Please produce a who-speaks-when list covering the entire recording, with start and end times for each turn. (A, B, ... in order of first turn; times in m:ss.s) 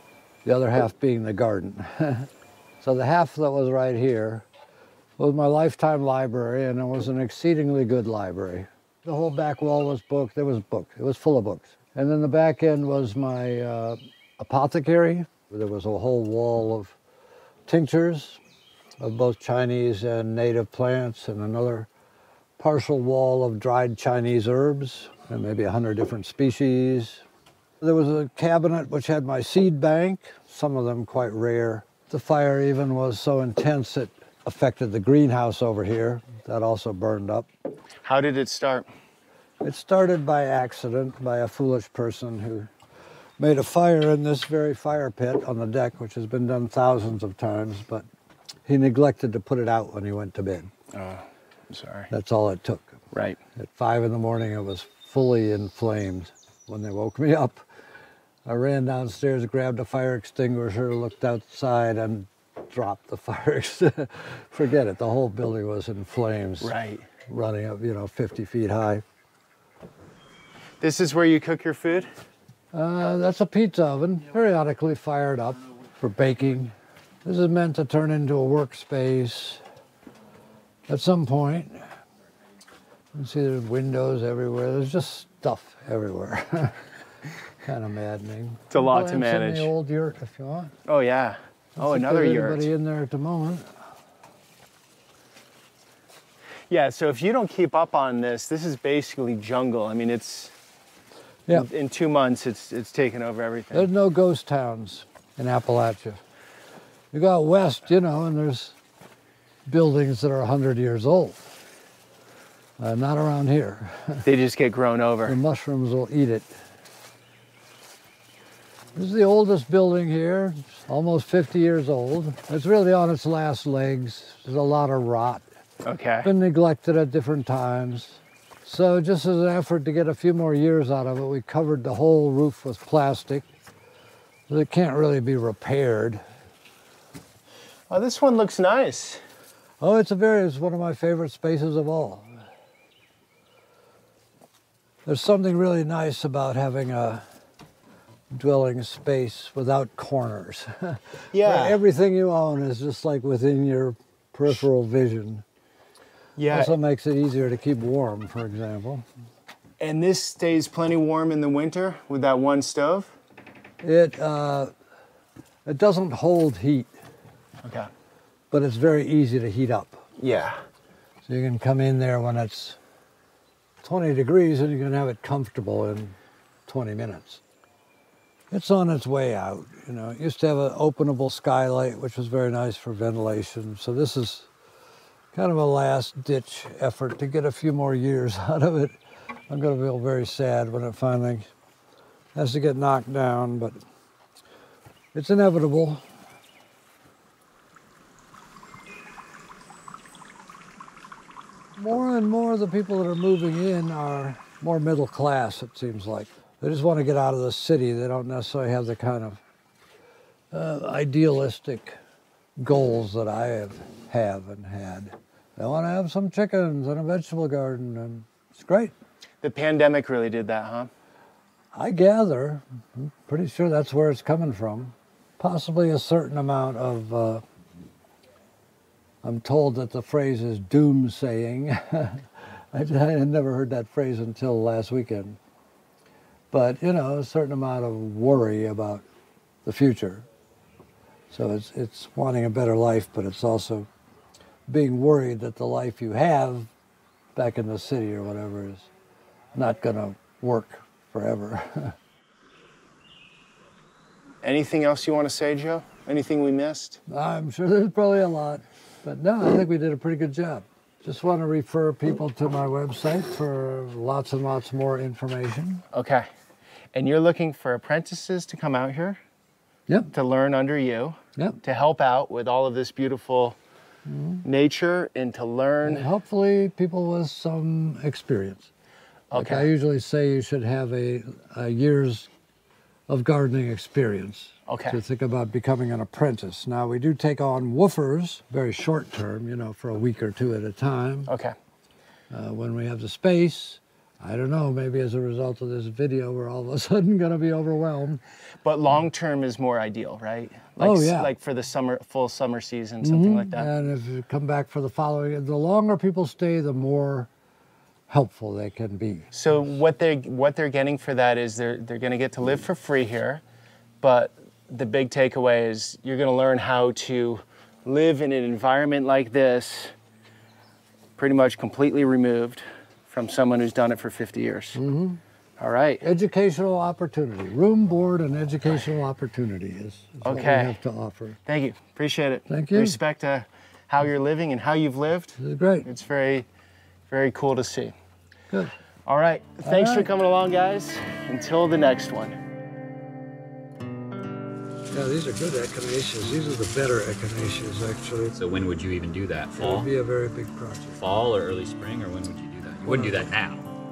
0:00.4-0:02.3 A
0:02.8-0:04.5 A
0:05.2-0:17.0 A
0:17.7-0:18.4 A
0:19.0-0:21.9 A
0:22.6-0:27.2 A
0:27.8-0:37.5 A
0:38.0-0:38.8 B
0:39.6-0:42.7 A
0:43.4-0:48.1 A
0:48.6-0:50.7 A
0:50.9-0:52.1 B
0:52.1-0:53.0 A
0:53.1-0:53.4 B
0:53.6-0:57.6 A
0:58.4-1:06.7 A
1:06.6-1:07.1 B
1:07.3-1:09.0 A
1:10.8-1:12.1 B
1:12.7-1:19.6 A
1:20.9-1:21.9 A
1:23.1-1:26.9 A
1:27.6-1:30.8 A
1:28.7-1:29.7 B
1:30.9-1:32.7 B
1:31.8-1:33.8 A
1:36.7-1:40.5 B
1:41.5-1:43.9 B
1:43.7-1:46.2 A
1:47.1-1:48.8 A
1:49.6-1:51.5 A
1:52.8-1:54.2 A
1:54.2-1:55.4 B
1:55.2-1:56.5 A
1:58.9-2:05.4 A
2:05.8-2:06.3 B
2:06.2-2:13.5 A
2:14.5-2:16.2 A
2:17.9-2:19.2 B
2:19.8-2:22.4 A
2:25.0-2:27.2 A
2:28.3-2:35.4 A
2:31.3-2:31.8 B
2:36.4-2:36.8 B
2:36.5-2:39.0 A
2:39.8-2:43.2 B
2:43.8-2:44.7 A
2:45.6-2:46.9 A
2:47.6-2:47.9 B
2:48.5-2:50.0 A
2:50.2-2:50.6 B
2:51.2-2:52.8 A
2:53.8-2:57.4 A
2:58.5-3:04.5 A
3:05.3-3:09.0 A
3:09.5-3:11.5 A
3:12.3-3:13.8 A
3:15.1-3:16.0 A
3:21.8-3:29.4 A
3:30.5-3:32.0 A
3:32.6-3:38.9 A
3:39.4-3:40.9 B
3:41.7-3:47.4 A
3:49.2-3:55.4 A
3:56.5-3:59.0 A
3:59.6-4:00.3 A
4:01.3-4:03.9 A
4:04.7-4:06.7 A
4:07.3-4:08.9 A
4:09.5-4:12.0 A
4:14.4-4:17.0 B
4:17.1-4:25.8 A
4:25.9-4:26.2 B
4:26.9-4:29.2 B
4:30.1-4:33.6 B
4:34.0-4:34.4 A
4:34.4-4:36.1 B
4:35.8-4:38.7 A
4:39.3-4:39.7 B
4:39.3-4:42.3 A
4:43.1-4:51.3 A
4:44.7-4:45.0 B
4:51.3-4:51.5 B
4:52.3-4:58.2 A
4:58.6-5:03.7 B
5:00.8-5:01.3 A
5:03.0-5:07.3 A
5:08.1-5:09.3 A
5:09.3-5:13.4 B
5:14.0-5:19.9 B
5:21.2-5:24.8 B
5:24.7-5:25.2 A
5:25.6-5:26.0 B
5:26.0-5:31.4 A
5:30.2-5:30.8 B
5:31.4-5:36.5 B
5:32.5-5:33.0 A
5:35.4-5:35.8 A
5:37.1-5:37.9 B
5:39.0-5:42.4 B
5:39.6-5:40.1 A
5:44.9-5:48.4 A
5:48.4-5:49.9 C
5:49.6-5:51.0 A
5:51.0-5:53.6 C
5:52.8-5:53.3 A